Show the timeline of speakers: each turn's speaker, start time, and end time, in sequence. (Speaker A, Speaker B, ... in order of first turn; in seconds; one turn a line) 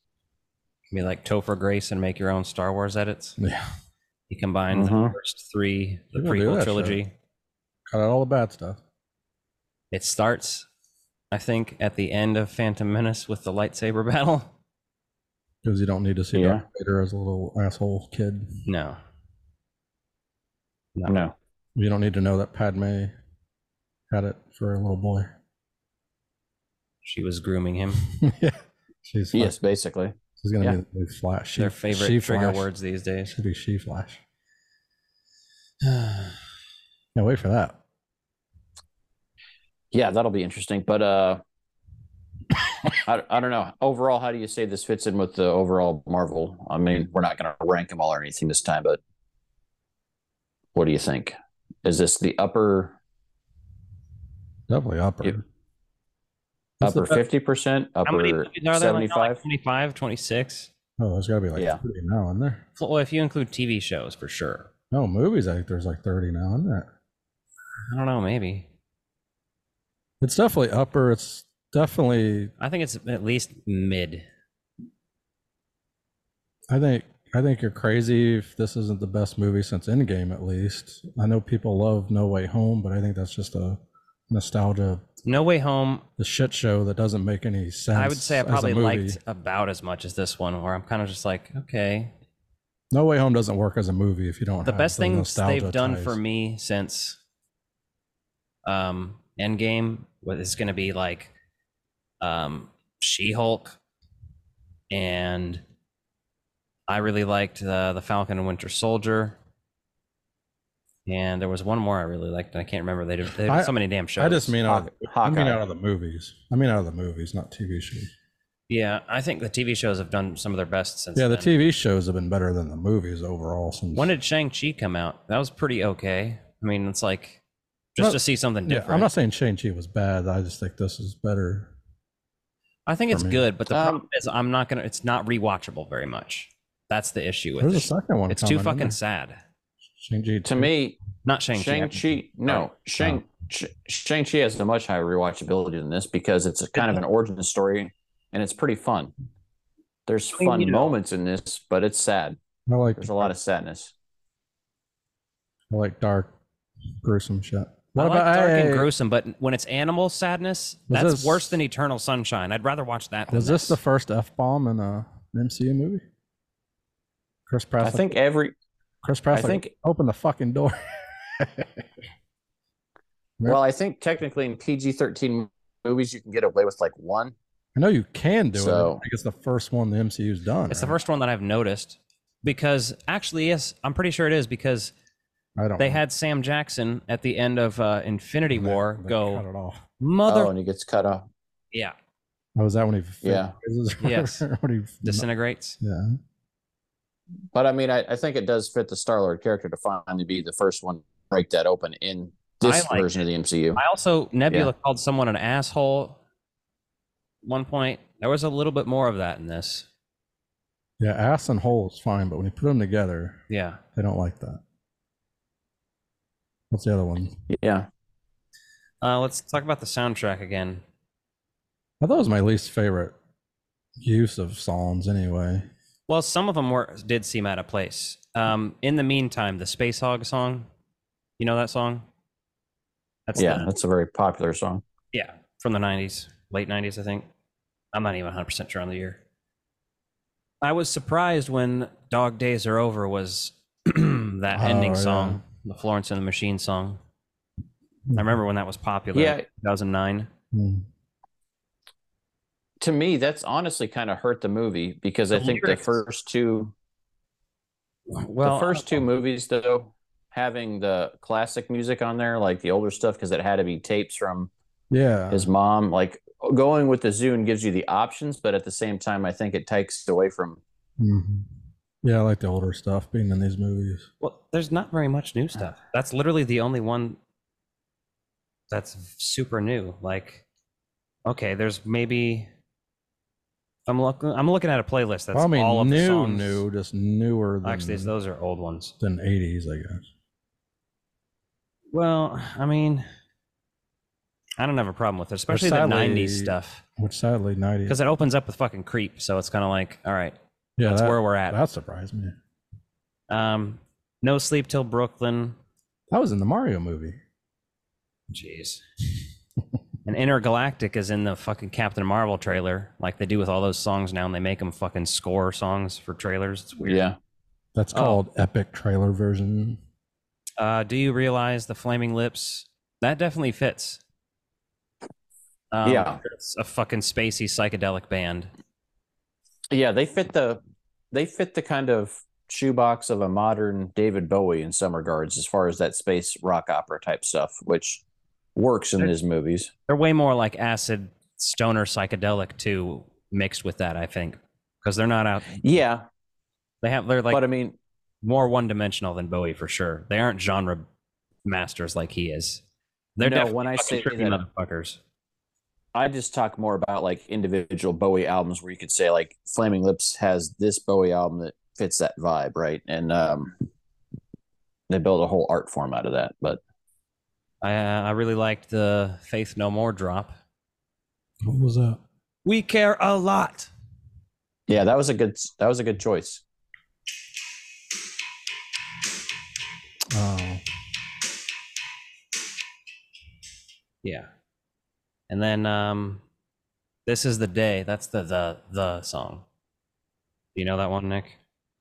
Speaker A: 0.9-3.4
Speaker B: 3.4-3.7
Speaker A: 4.3-7.1
Speaker C: 4.7-5.2
Speaker B: 6.2-7.0
Speaker B: 7.9-8.8
Speaker A: 9.9-10.7
Speaker A: 11.3-14.5
Speaker B: 15.6-18.5
Speaker C: 16.3-16.6
Speaker A: 18.7-19.0
Speaker C: 21.1-21.3
Speaker B: 21.8-23.1
Speaker B: 24.1-25.4
Speaker A: 27.0-28.1
Speaker B: 28.1-29.6
Speaker C: 29.3-30.8
Speaker B: 30.4-32.7
Speaker A: 31.6-33.4
Speaker B: 33.3-34.2
Speaker A: 35.8-36.3
Speaker B: 37.1-37.8
Speaker C: 39.9-41.4
Speaker C: 43.0-49.0
Speaker C: 50.8-53.0
Speaker B: 54.7-55.4
Speaker B: 56.8-57.2
Speaker C: 56.8-59.4
Speaker A: 58.1-60.7
Speaker B: 61.0-62.6
Speaker C: 61.6-61.8
Speaker A: 62.8-64.7
Speaker B: 64.9-66.9
Speaker A: 67.9-68.7
Speaker B: 70.2-72.5
Speaker A: 72.6-74.2
Speaker B: 76.7-85.0
Speaker A: 85.2-86.0
Speaker B: 86.2-89.2
Speaker A: 87.9-92.1
Speaker B: 92.9-96.2
Speaker A: 94.6-97.2
Speaker A: 98.7-101.3
Speaker A: 102.2-103.8
Speaker A: 104.9-105.6
Speaker A: 106.9-109.4
Speaker A: 111.1-114.5
Speaker B: 113.5-118.1
Speaker C: 114.7-115.6
Speaker A: 118.7-121.5
Speaker B: 121.2-124.1
Speaker A: 123.9-127.4
Speaker A: 128.0-129.1
Speaker B: 128.0-131.7
Speaker A: 132.9-139.4
Speaker B: 133.1-133.4
Speaker C: 133.7-134.0
Speaker B: 137.6-139.0
Speaker B: 140.0-140.7
Speaker C: 140.4-141.0
Speaker A: 141.2-142.7
Speaker C: 141.5-149.1
Speaker C: 150.1-152.4
Speaker A: 150.4-150.9
Speaker B: 152.7-153.3
Speaker C: 153.0-153.9
Speaker B: 155.7-156.3
Speaker B: 157.0-158.9
Speaker A: 158.0-163.8
Speaker B: 160.9-161.6
Speaker B: 163.3-166.0
Speaker B: 167.5-168.1
Speaker C: 167.8-168.5
Speaker B: 169.0-171.9
Speaker C: 169.3-169.7
Speaker C: 173.5-177.3
Speaker B: 177.8-181.0
Speaker C: 178.6-179.0
Speaker A: 180.7-184.9
Speaker B: 185.6-186.0
Speaker A: 185.8-189.4
Speaker B: 188.5-189.8
Speaker A: 190.0-190.5
Speaker C: 190.3-191.3
Speaker B: 192.6-195.3
Speaker C: 193.2-193.5
Speaker A: 194.0-194.4
Speaker A: 195.0-195.8
Speaker B: 195.8-196.2
Speaker C: 197.5-203.8
Speaker A: 202.6-203.2
Speaker A: 203.8-206.2
Speaker A: 207.4-209.9
Speaker B: 211.0-213.4
Speaker A: 213.5-213.8
Speaker B: 213.9-214.6
Speaker B: 216.7-217.4
Speaker C: 217.5-217.9
Speaker A: 219.0-220.8
Speaker B: 222.0-223.2
Speaker B: 224.0-225.7
Speaker A: 226.1-230.7
Speaker A: 231.4-232.1
Speaker A: 233.3-233.7
Speaker C: 233.4-234.8
Speaker A: 235.1-237.3
Speaker A: 237.9-239.2
Speaker A: 240.6-247.0
Speaker B: 244.5-245.4
Speaker A: 248.2-250.3
Speaker C: 249.1-249.4
Speaker B: 250.5-250.9
Speaker C: 252.8-256.7
Speaker A: 255.3-256.0
Speaker A: 258.1-259.0
Speaker C: 258.4-264.5
Speaker B: 264.9-265.5
Speaker C: 265.3-270.6
Speaker B: 271.0-271.5
Speaker B: 272.0-274.1
Speaker A: 274.2-277.2
Speaker A: 278.7-280.4
Speaker A: 281.3-282.5
Speaker A: 283.9-286.6
Speaker B: 285.3-288.1
Speaker A: 287.6-288.9
Speaker B: 289.0-290.0
Speaker A: 291.9-293.1
Speaker A: 294.6-296.8
Speaker B: 295.5-298.0
Speaker A: 297.9-301.6
Speaker B: 300.8-302.4
Speaker A: 303.3-305.6
Speaker B: 306.1-307.2
Speaker A: 308.3-308.8
Speaker A: 310.1-317.0
Speaker C: 316.8-317.2
Speaker B: 317.8-319.8
Speaker A: 317.9-318.2
Speaker A: 320.6-324.0
Speaker A: 325.7-328.5
Speaker C: 325.8-326.2
Speaker C: 329.7-330.6
Speaker C: 331.1-338.0
Speaker C: 338.6-339.7
Speaker A: 339.9-345.6
Speaker C: 345.6-346.1
Speaker A: 346.8-347.4
Speaker C: 347.3-347.8
Speaker A: 348.2-350.9
Speaker A: 351.4-352.6
Speaker A: 353.2-355.0
Speaker C: 353.2-354.4
Speaker C: 355.9-363.5
Speaker C: 364.9-366.6
Speaker A: 367.6-370.4
Speaker B: 371.4-372.0
Speaker A: 372.4-373.7
Speaker C: 374.7-376.4
Speaker B: 380.1-380.6
Speaker A: 384.0-384.3
Speaker A: 385.3-386.2
Speaker A: 387.1-389.4
Speaker A: 390.6-391.4